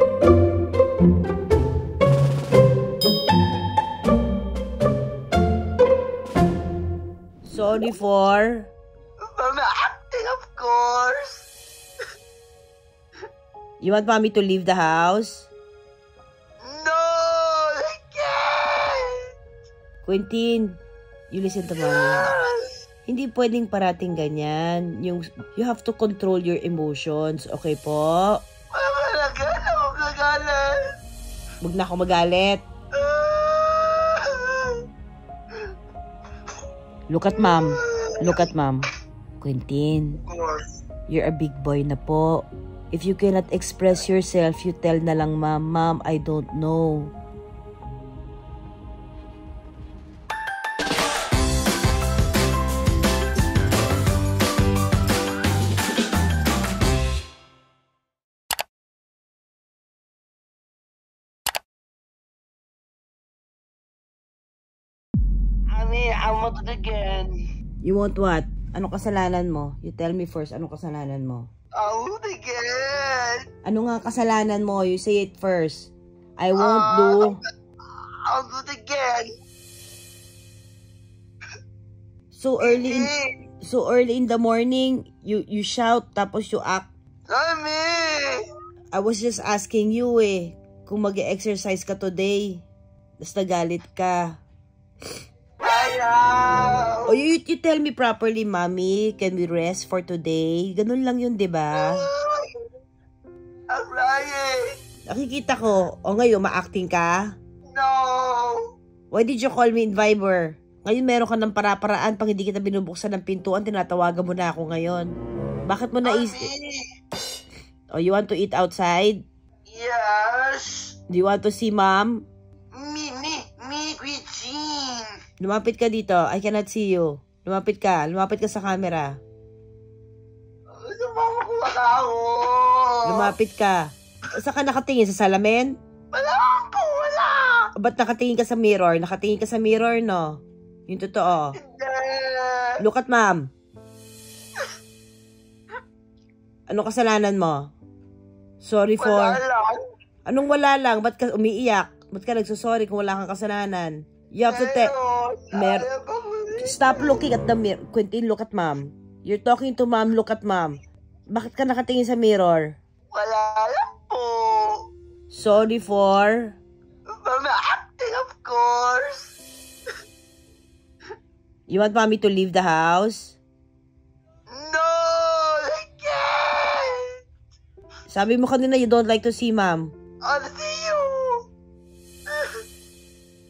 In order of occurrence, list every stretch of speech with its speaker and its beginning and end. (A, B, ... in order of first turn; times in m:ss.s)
0:07.4-0:08.7 A
0:09.3-0:11.4 B
0:13.8-0:15.5 A
0:16.6-0:19.2 B
0:20.0-0:20.8 A
0:21.3-0:22.3 A
0:21.9-0:22.7 B
0:23.0-0:28.4 A
0:28.7-0:30.9 B
0:31.6-0:32.6 A
0:32.9-0:34.8 B
0:37.1-0:38.9 A
0:37.5-0:38.5 B
0:39.4-0:40.2 A
0:40.2-0:40.7 B
0:41.1-0:47.1 A
1:05.7-1:07.4 B
1:07.8-1:11.5 A
1:11.7-1:13.4 B
1:13.6-1:17.4 A
1:16.6-1:17.4 B
1:18.2-1:19.3 B
1:22.3-1:23.1 A
1:22.6-1:23.3 B
1:23.6-1:26.9 A
1:27.3-1:28.4 B
1:28.9-1:32.6 A
1:33.2-1:34.2 A
1:35.6-1:37.1 B
1:37.1-1:42.0 A
1:41.8-1:42.6 B
1:43.7-1:44.6 B
1:45.1-1:47.2 A
1:47.7-1:48.6 B
1:49.1-1:55.1 A
1:55.7-1:56.5 A
1:56.0-1:56.8 B
1:57.9-1:59.2 A
1:59.7-2:00.9 B
2:01.1-2:02.2 A
2:02.7-2:05.1 B
2:05.4-2:09.1 A
2:10.8-2:13.3 B
2:13.0-2:13.8 A
2:14.4-2:15.7 A
2:16.1-2:17.7 B
2:17.8-2:21.6 A
2:21.6-2:22.8 B
2:22.8-2:23.4 A
2:26.7-2:27.6 A
2:28.6-2:29.4 A
2:29.0-2:29.8 B
2:30.2-2:34.9 A
2:34.5-2:37.2 B
2:35.5-2:35.8 A
2:36.6-2:40.8 A
2:41.3-2:42.8 A
2:43.1-2:44.8 B
2:45.3-2:46.6 A
2:47.2-2:49.3 B
2:51.7-2:53.4 A
2:54.5-2:57.1 B
2:58.1-2:59.9 A
3:00.2-3:01.4 B
3:02.3-3:02.6 B